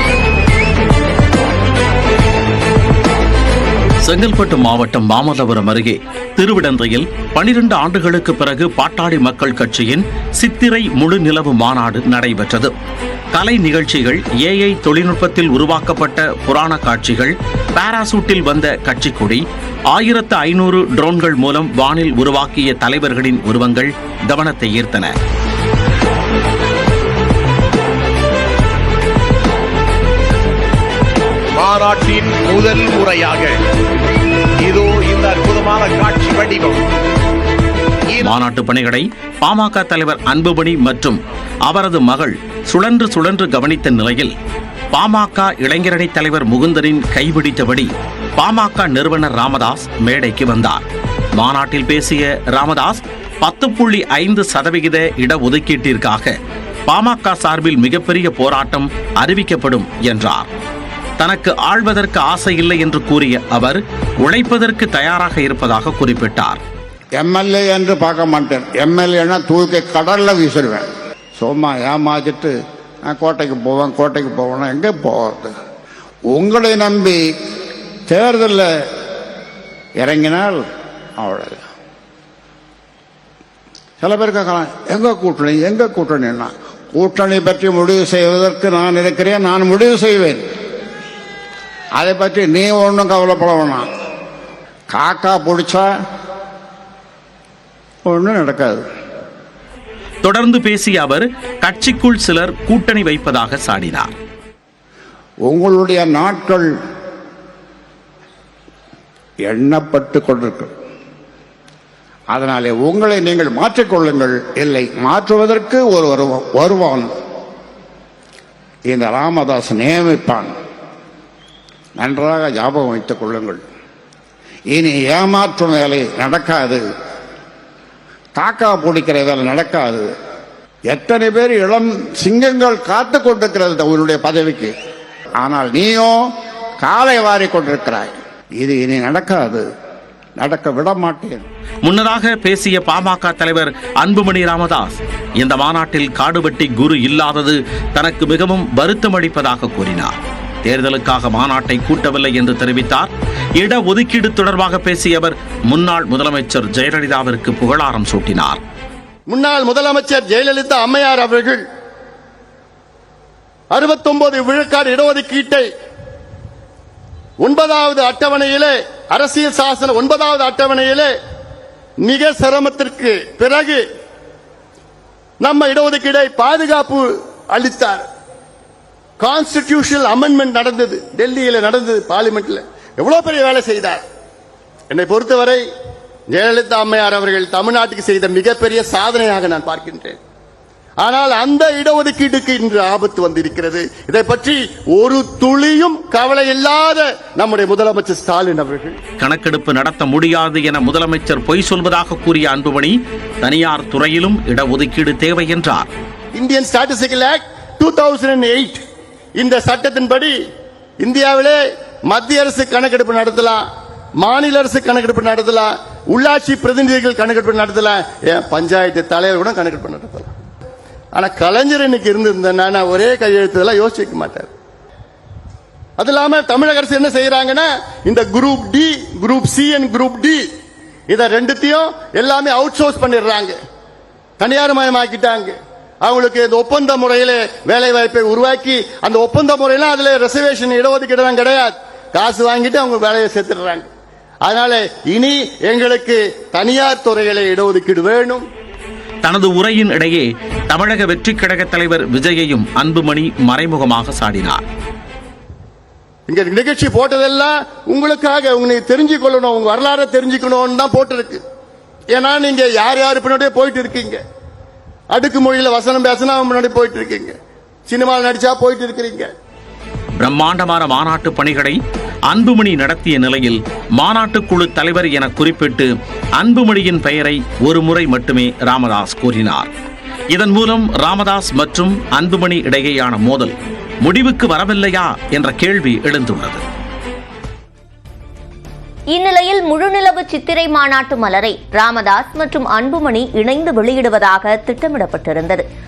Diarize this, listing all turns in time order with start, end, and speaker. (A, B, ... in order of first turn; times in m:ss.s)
0:04.0-0:12.7 A
0:13.3-0:25.1 A
0:31.6-0:33.5 B
0:34.6-0:36.8 B
0:38.2-0:44.3 A
0:44.9-0:56.3 A
0:56.9-1:00.5 A
1:01.2-1:06.6 A
1:07.2-1:10.8 C
1:11.4-1:12.5 C
1:13.1-1:15.5 C
1:16.3-1:17.2 C
1:18.1-1:18.7 C
1:20.0-1:20.6 C
1:21.2-1:21.6 C
1:24.0-1:30.4 C
1:32.0-1:33.9 C
1:34.9-1:35.9 C
1:38.1-1:38.8 C
1:40.2-1:44.1 A
1:45.5-1:46.7 C
1:49.5-1:50.7 C
1:52.3-1:57.1 C
1:58.9-2:00.5 C
2:02.0-2:03.6 C
2:04.7-2:06.8 C
2:08.4-2:10.1 C
2:10.9-2:14.7 C
2:15.4-2:16.2 C
2:16.8-2:19.6 C
2:20.4-2:21.4 C
2:21.8-2:38.6 A
2:39.3-2:41.6 D
2:43.7-2:45.7 D
2:47.4-2:51.1 D
2:52.0-2:53.8 D
2:55.4-2:58.0 D
2:59.2-3:04.0 D
3:04.9-3:05.6 D
3:06.3-3:10.2 D
3:11.0-3:19.0 D
3:19.2-3:25.9 A
3:26.3-3:28.8 D
3:29.4-3:30.3 D
3:31.0-3:33.6 D
3:34.2-3:40.3 D
3:41.2-3:44.5 D
3:46.0-3:50.4 D
3:51.1-3:53.6 D
3:54.4-4:03.9 D
4:04.4-4:08.4 D
4:09.2-4:14.6 A
4:16.3-4:21.4 D
4:22.1-4:24.2 D
4:25.1-4:27.4 D
4:27.9-4:29.3 D
4:30.2-4:31.8 A
4:32.3-4:39.7 A
4:40.3-4:46.6 A
4:49.1-4:55.6 E